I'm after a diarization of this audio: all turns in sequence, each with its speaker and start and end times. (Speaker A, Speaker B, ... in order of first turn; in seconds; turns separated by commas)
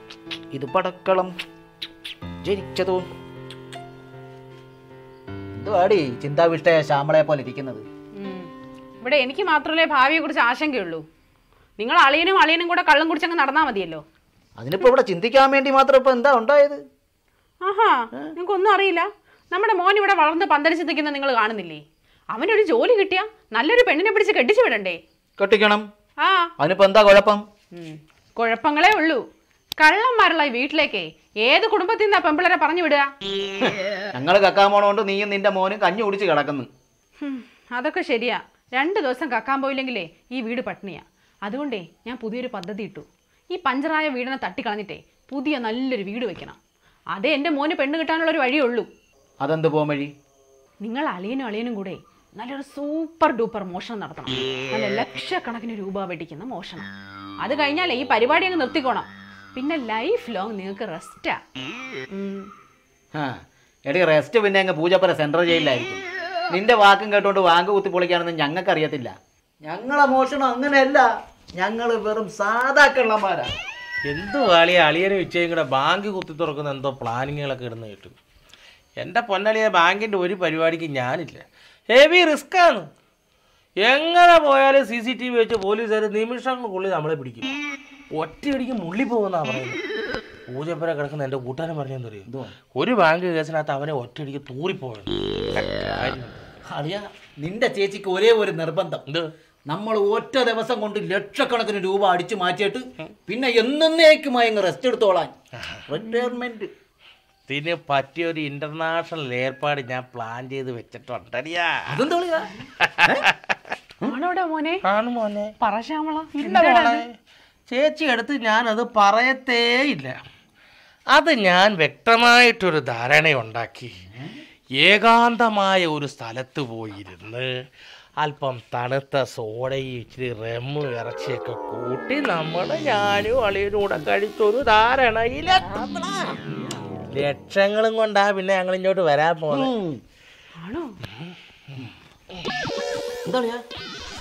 Speaker A: 0.5-1.3, Speaker A: 2.4-3.0, Speaker A: 5.5-7.8, Speaker B: 8.2-8.5, Speaker B: 9.0-11.0, Speaker B: 11.8-14.0, Speaker A: 14.6-16.8, Speaker B: 17.6-21.8, Speaker B: 22.3-25.0, Speaker A: 25.4-25.9, Speaker B: 26.2-26.5, Speaker A: 26.6-27.4, Speaker B: 27.7-29.2, Speaker B: 29.8-33.1, Speaker A: 33.6-36.7, Speaker B: 37.2-46.6, Speaker B: 47.1-48.9, Speaker A: 49.4-50.1, Speaker B: 50.8-56.9, Speaker B: 57.4-61.4, Speaker B: 62.1-62.5, Speaker A: 63.1-73.5, Speaker C: 74.0-78.2, Speaker C: 79.0-82.9, Speaker C: 83.8-87.5, Speaker C: 88.1-89.8, Speaker C: 90.5-96.4, Speaker A: 92.3-92.5, Speaker A: 96.7-99.0, Speaker A: 99.7-105.3, Speaker A: 105.9-106.7, Speaker C: 107.5-112.0, Speaker A: 111.9-112.5, Speaker C: 112.8-113.5, Speaker B: 114.0-114.8, Speaker C: 114.9-115.5, Speaker B: 115.6-117.0, Speaker C: 116.3-117.1, Speaker C: 117.7-120.2, Speaker C: 121.1-123.9, Speaker C: 124.8-127.5, Speaker C: 128.2-136.4, Speaker C: 137.1-139.7, Speaker A: 139.5-140.0, Speaker B: 140.6-140.9, Speaker A: 143.3-143.6